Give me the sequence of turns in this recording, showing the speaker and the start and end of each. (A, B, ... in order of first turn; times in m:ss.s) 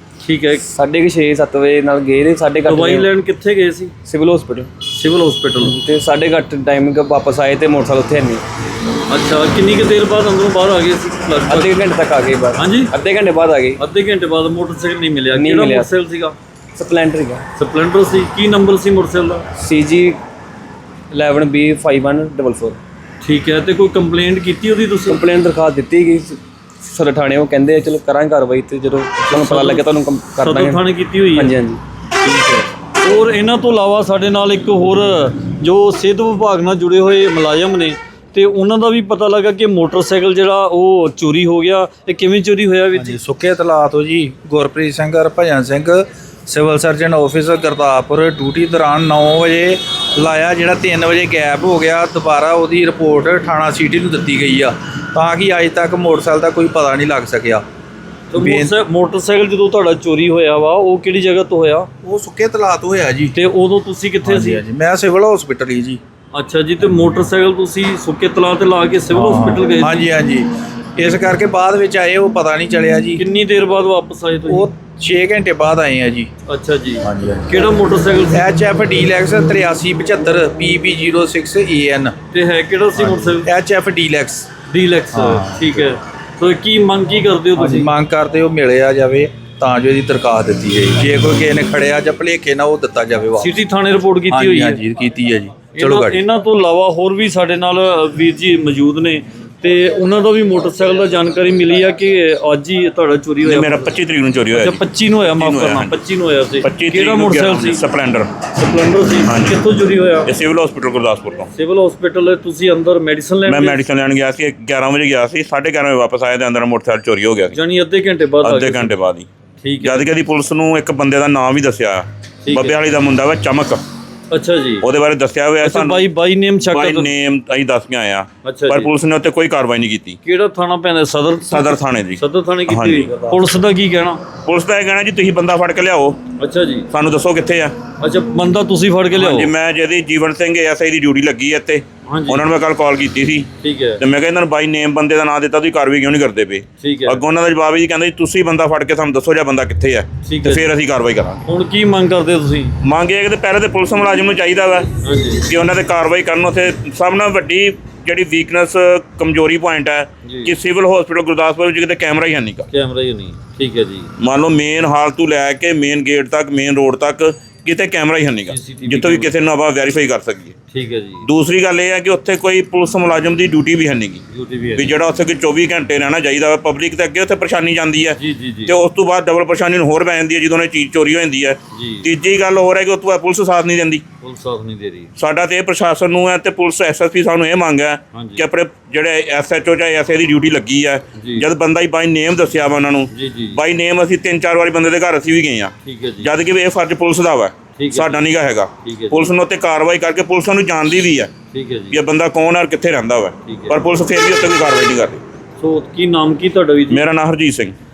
0:00.2-0:00.7 A
0:00.7-0:03.1 B
0:02.6-0:04.0 A
0:04.0-0:04.7 B
0:04.9-0:05.8 A
0:05.6-0:08.4 B
0:09.1-0:11.8 A
0:11.5-0:13.8 B
0:12.6-0:12.9 A
0:13.8-0:16.4 A
0:15.3-0:15.9 B
0:16.8-0:17.4 B
0:17.6-0:19.5 A
0:19.6-0:20.2 B
0:21.1-0:22.8 B
0:23.2-0:25.2 A
0:25.1-0:30.8 B
0:29.3-0:31.6 A
0:31.4-0:31.8 B
0:32.2-0:43.2 A
0:43.0-0:57.6 C
0:58.3-1:01.9 A
0:58.4-0:58.7 C
1:02.0-1:03.4 C
1:03.4-1:04.6 A
1:04.2-1:06.0 C
1:06.3-1:10.1 A
1:09.1-1:13.2 C
1:13.2-1:14.7 A
1:14.5-1:16.3 C
1:16.5-1:18.4 A
1:17.0-1:17.5 C
1:18.3-1:22.2 C
1:22.3-1:23.5 A
1:23.0-1:24.5 C
1:24.7-1:27.9 A
1:25.1-1:25.9 C
1:27.6-1:33.6 C
1:33.4-1:34.8 A
1:34.3-1:36.2 C
1:35.8-1:43.9 A
1:43.5-1:44.8 D
1:44.5-1:47.8 A
1:45.4-1:46.0 D
1:46.6-1:48.3 D
1:48.5-1:50.3 A
1:49.3-1:49.6 D
1:50.3-1:51.5 D
1:51.5-1:53.8 A
1:53.5-1:57.6 D
1:57.5-1:59.0 A
1:58.4-1:59.3 D
1:59.6-2:00.1 A
1:59.8-2:03.8 D
2:02.4-2:02.8 A
2:04.3-2:04.8 A
2:04.8-2:06.1 D
2:05.6-2:07.1 A
2:06.7-2:10.2 D
2:08.4-2:08.9 A
2:10.2-2:14.2 A
2:11.5-2:13.4 D
2:14.4-2:16.2 D
2:16.4-2:16.9 A
2:16.9-2:17.8 D
2:18.0-2:19.5 A
2:19.2-2:23.5 D
2:22.1-2:22.5 A
2:23.6-2:24.0 A
2:24.0-2:31.4 D
2:26.8-2:27.2 A
2:30.2-2:30.7 A
2:31.5-2:32.8 A
2:32.8-2:34.9 D
2:35.0-2:35.5 A
2:35.4-2:42.7 D
2:40.2-2:40.6 A
2:42.7-2:44.1 A
2:44.2-2:50.6 D
2:48.5-2:49.3 A
2:50.7-2:51.3 A
2:51.2-2:54.2 D
2:54.3-2:54.9 A
2:54.8-3:04.0 D
2:58.2-2:58.8 A
3:01.7-3:02.1 A
3:04.2-3:05.1 A
3:05.2-3:21.3 D
3:08.1-3:08.4 A
3:11.2-3:11.5 A
3:13.1-3:13.6 A
3:15.8-3:16.3 A
3:17.8-3:18.2 A
3:18.8-3:19.3 A
3:21.5-3:22.0 A
3:21.9-3:25.2 D
3:23.5-3:23.8 A
3:25.6-3:27.0 A
3:26.9-3:27.8 D